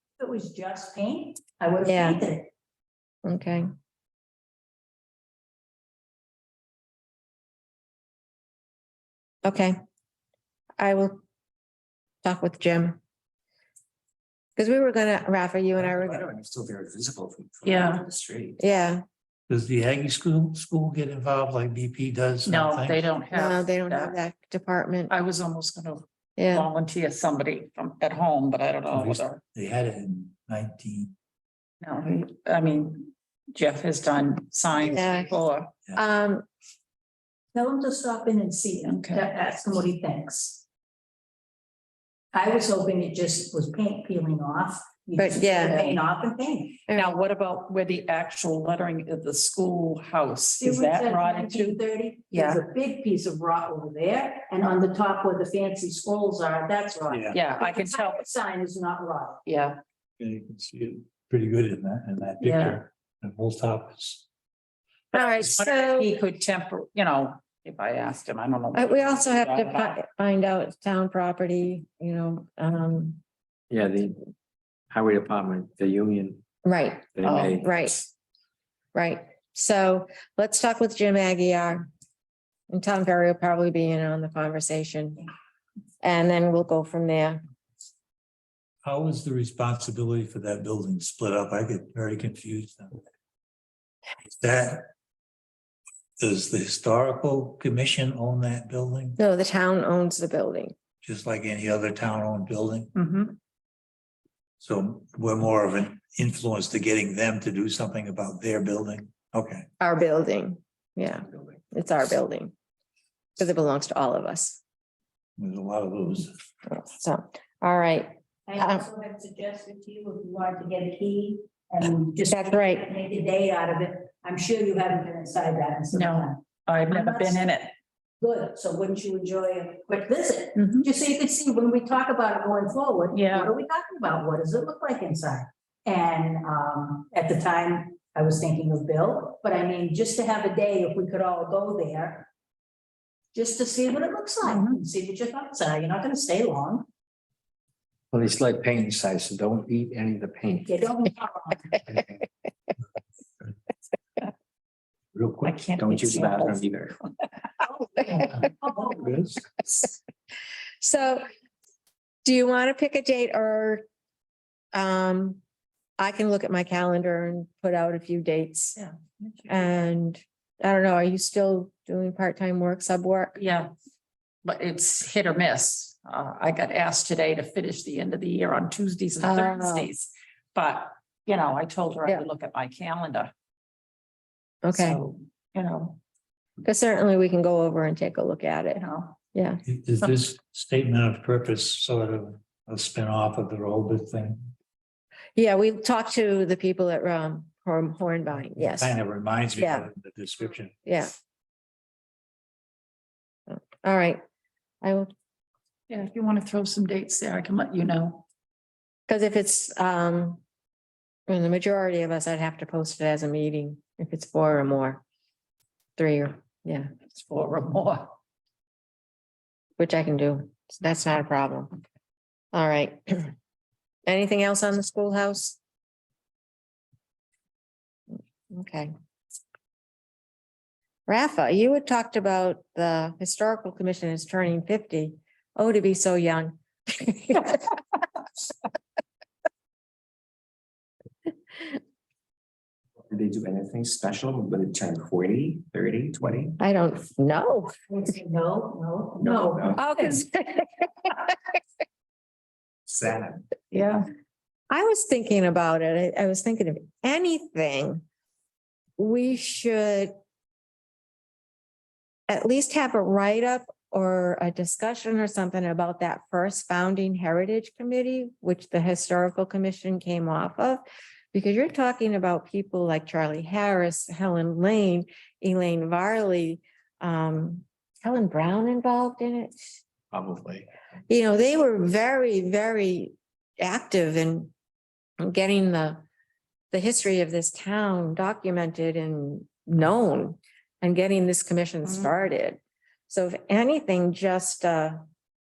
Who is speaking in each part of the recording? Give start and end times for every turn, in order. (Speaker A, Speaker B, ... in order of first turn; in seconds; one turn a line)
Speaker A: 0.2-2.5
Speaker B: 1.8-2.2
Speaker B: 3.2-3.7
Speaker B: 9.4-9.8
Speaker B: 10.8-11.2
Speaker B: 12.2-13.0
Speaker B: 14.6-16.2
Speaker C: 15.8-18.6
Speaker D: 17.6-18.1
Speaker B: 18.6-19.0
Speaker E: 19.5-23.1
Speaker D: 22.5-24.2
Speaker B: 23.3-25.1
Speaker D: 25.1-29.4
Speaker B: 26.4-26.7
Speaker E: 28.9-31.1
Speaker D: 31.8-35.7
Speaker B: 34.8-35.3
Speaker B: 35.9-36.5
Speaker A: 37.5-40.6
Speaker D: 38.9-39.2
Speaker A: 42.3-46.9
Speaker B: 45.2-46.0
Speaker B: 46.9-47.1
Speaker D: 46.9-51.8
Speaker A: 50.6-59.4
Speaker D: 52.3-52.6
Speaker E: 57.1-57.4
Speaker D: 57.3-58.3
Speaker D: 59.5-59.8
Speaker E: 60.2-64.2
Speaker D: 62.4-62.8
Speaker B: 65.1-66.1
Speaker D: 65.1-70.0
Speaker B: 68.7-73.2
Speaker C: 73.7-74.2
Speaker C: 74.9-76.4
Speaker B: 76.7-78.0
Speaker C: 77.2-77.7
Speaker D: 77.2-77.6
Speaker B: 78.9-81.9
Speaker B: 82.7-85.3
Speaker B: 86.0-87.4
Speaker E: 88.8-93.0
Speaker E: 94.3-94.9
Speaker E: 96.2-99.2
Speaker B: 99.2-100.8
Speaker E: 101.0-102.9
Speaker D: 103.0-103.4
Speaker E: 104.6-109.7
Speaker B: 109.8-112.5
Speaker B: 113.4-114.6
Speaker E: 115.4-116.4
Speaker B: 116.7-118.8
Speaker A: 118.5-127.5
Speaker B: 122.3-122.9
Speaker D: 125.9-127.7
Speaker A: 128.2-142.3
Speaker D: 130.6-130.9
Speaker D: 133.1-133.5
Speaker A: 143.3-146.9
Speaker D: 144.4-144.8
Speaker C: 148.1-150.7
Speaker A: 150.7-151.8
Speaker E: 155.2-155.6
Speaker D: 155.4-156.7
Speaker C: 155.8-157.0
Speaker E: 158.2-159.6
Speaker A: 158.7-158.9
Speaker B: 160.8-161.3
Speaker B: 162.2-163.8
Speaker B: 164.7-165.4
Speaker B: 166.0-168.8
Speaker D: 168.8-169.7
Speaker B: 169.5-173.4
Speaker D: 173.4-173.7
Speaker D: 174.4-183.3
Speaker B: 179.2-179.9
Speaker B: 184.6-185.0
Speaker D: 184.7-186.0
Speaker B: 186.6-189.6
Speaker D: 188.8-189.2
Speaker E: 189.7-194.5
Speaker B: 195.4-199.0
Speaker E: 198.6-200.8
Speaker B: 199.6-199.9
Speaker B: 200.8-201.1
Speaker B: 203.5-204.2
Speaker B: 204.8-205.1
Speaker D: 205.9-208.2
Speaker B: 209.1-210.4
Speaker B: 211.3-215.0
Speaker B: 216.0-216.9
Speaker D: 217.1-218.2
Speaker B: 219.8-221.7
Speaker B: 222.5-223.3
Speaker B: 224.1-225.6
Speaker B: 228.5-228.9
Speaker B: 231.1-237.6
Speaker C: 243.1-246.6
Speaker B: 246.6-247.8
Speaker A: 247.9-250.2
Speaker C: 249.2-249.8
Speaker B: 249.8-250.9
Speaker C: 252.9-253.6
Speaker D: 253.7-254.1
Speaker B: 254.7-258.0
Speaker B: 259.0-260.1
Speaker B: 262.3-279.5
Speaker C: 280.1-280.7
Speaker B: 281.1-284.5
Speaker B: 285.2-286.0
Speaker B: 286.7-295.0